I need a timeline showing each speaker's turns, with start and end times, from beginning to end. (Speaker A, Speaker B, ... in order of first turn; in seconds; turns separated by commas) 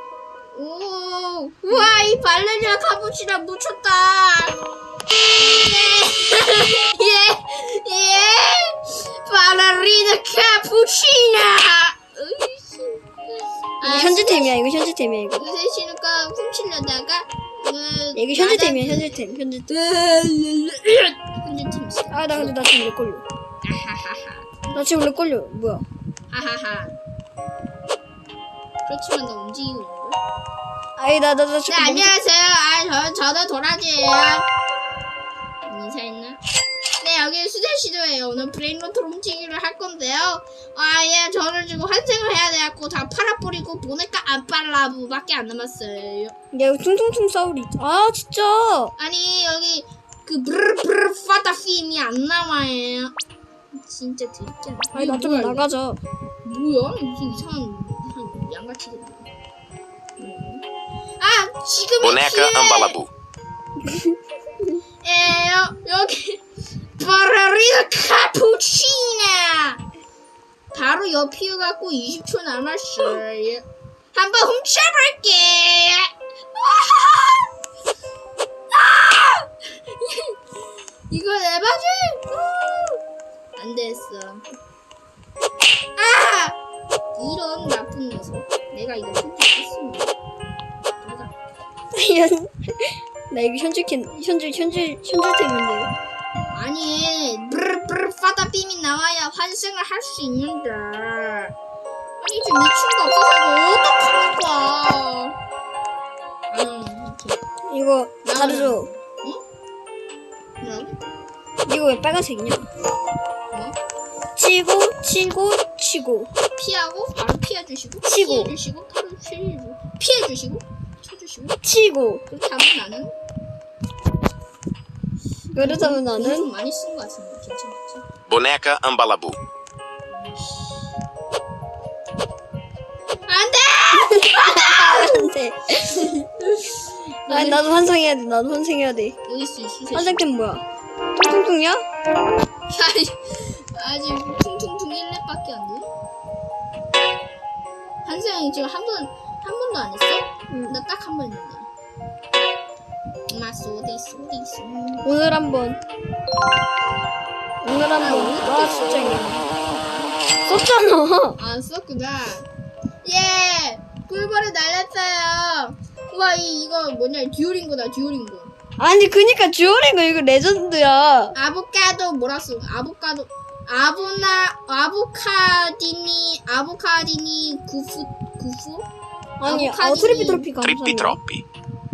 Speaker A: 0.5-4.6, Speaker A: 5.4-13.1, Speaker A: 13.8-14.6, Speaker B: 13.8-15.5, Speaker A: 15.3-22.6, Speaker B: 18.1-19.7, Speaker B: 22.1-23.2, Speaker A: 23.6-25.2, Speaker B: 24.7-25.9, Speaker A: 26.3-27.0, Speaker A: 28.9-30.2, Speaker B: 31.0-32.1, Speaker A: 31.7-34.5, Speaker A: 35.6-36.4, Speaker A: 37.0-46.3, Speaker B: 46.5-48.9, Speaker A: 49.0-53.1, Speaker A: 53.7-55.7, Speaker B: 54.9-56.0, Speaker A: 56.4-59.3, Speaker A: 60.2-60.6, Speaker A: 61.2-63.0, Speaker C: 62.0-63.1, Speaker B: 63.9-64.1, Speaker A: 65.0-66.4, Speaker A: 67.0-69.8, Speaker A: 70.7-77.5, Speaker A: 78.7-80.3, Speaker A: 81.1-83.0, Speaker A: 83.6-84.4, Speaker A: 86.0-86.6, Speaker A: 87.1-90.2, Speaker A: 91.0-91.3, Speaker B: 91.9-95.9, Speaker A: 96.5-101.5, Speaker A: 102.2-105.3, Speaker A: 106.5-107.4, Speaker B: 107.6-108.9, Speaker A: 108.2-109.4, Speaker A: 110.6-111.0, Speaker B: 111.7-112.7, Speaker A: 113.5-113.8, Speaker B: 114.4-116.3, Speaker A: 116.6-121.6, Speaker B: 118.0-118.5, Speaker B: 121.6-122.2, Speaker A: 122.3-123.1, Speaker A: 125.5-128.0, Speaker B: 125.5-126.5, Speaker C: 128.3-129.4, Speaker A: 130.1-130.9, Speaker A: 133.3-135.3, Speaker B: 133.9-136.1, Speaker A: 136.0-137.7, Speaker B: 137.3-139.2, Speaker A: 139.2-140.2, Speaker B: 139.9-140.6, Speaker B: 141.2-141.8, Speaker A: 142.7-145.9, Speaker A: 148.0-151.7, Speaker B: 150.5-150.8, Speaker A: 153.3-155.1, Speaker B: 155.0-155.8, Speaker B: 157.6-159.4, Speaker A: 158.0-160.3, Speaker B: 160.5-161.4, Speaker A: 161.4-162.5, Speaker A: 163.0-168.5, Speaker B: 168.8-171.3, Speaker A: 171.3-178.9, Speaker B: 179.4-181.2, Speaker A: 179.4-180.5, Speaker C: 180.6-181.4